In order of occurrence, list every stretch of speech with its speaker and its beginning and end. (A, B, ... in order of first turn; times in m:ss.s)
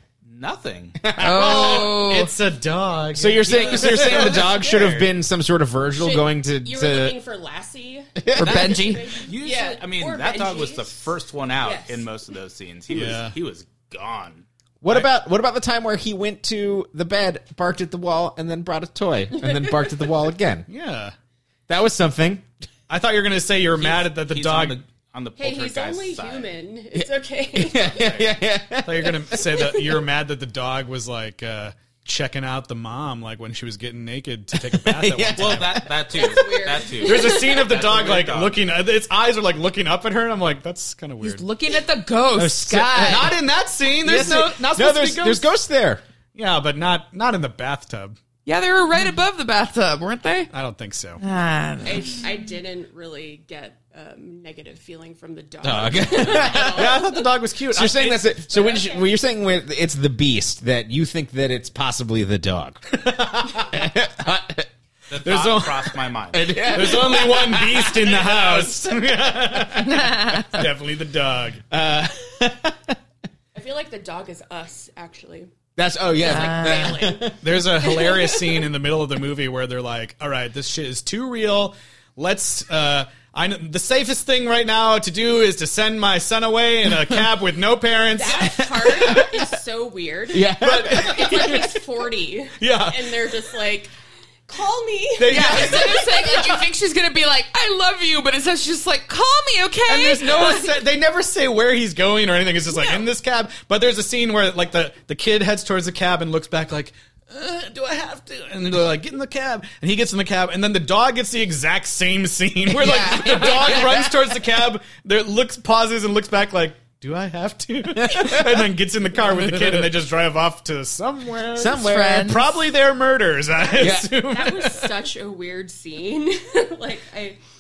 0:00.2-0:01.0 A
0:01.0-0:01.9 B
0:01.2-0:05.0 C
0:01.2-0:02.3 D
0:03.2-0:07.2 B
0:03.4-0:05.0 A
0:06.0-0:12.1 E
0:08.2-0:08.7 B
0:08.3-0:09.1 D
0:08.4-0:14.5 A
0:12.9-0:13.4 C
0:14.8-0:20.7 B
0:19.4-0:19.9 E
0:20.7-0:21.2 C
0:21.7-0:22.5 B
0:22.9-0:24.8 C
0:23.8-0:26.5 A
0:25.4-0:28.4 E
0:26.9-0:29.5 B
0:28.8-0:35.8 C
0:34.5-0:36.4 B
0:35.4-0:38.6 A
0:36.2-0:37.7 E
0:37.0-0:41.4 C
0:41.2-0:43.3 D
0:42.4-0:43.4 B
0:42.9-0:45.5 C
0:44.0-0:46.0 B
0:46.4-0:48.2 C
0:48.5-0:50.5 D
0:50.5-0:51.2 C
0:51.2-0:52.2 D
0:51.8-0:57.1 E
0:55.6-0:57.0 B
0:56.5-0:58.4 C
0:57.7-1:04.7 B
1:03.2-1:03.6 C
1:05.1-1:06.8 A
1:05.2-1:11.6 C
1:06.3-1:10.6 B
1:11.7-1:13.0 B
1:13.5-1:15.5 E
1:15.8-1:17.6 B
1:16.2-1:18.6 E
1:16.3-1:17.0 D
1:17.4-1:29.1 C
1:28.1-1:33.9 E
1:28.5-1:29.4 B
1:30.3-1:31.7 B
1:30.6-1:31.7 C
1:32.6-1:33.2 C
1:34.5-1:36.5 E
1:35.2-1:36.2 C
1:35.3-1:40.8 D
1:39.9-2:04.9 C
1:52.7-1:53.8 D
1:52.8-1:54.1 B
1:57.9-1:58.7 B
1:59.3-1:59.9 B
2:01.5-2:02.4 B
2:01.7-2:02.5 D
2:03.6-2:07.4 E
2:03.8-2:04.1 B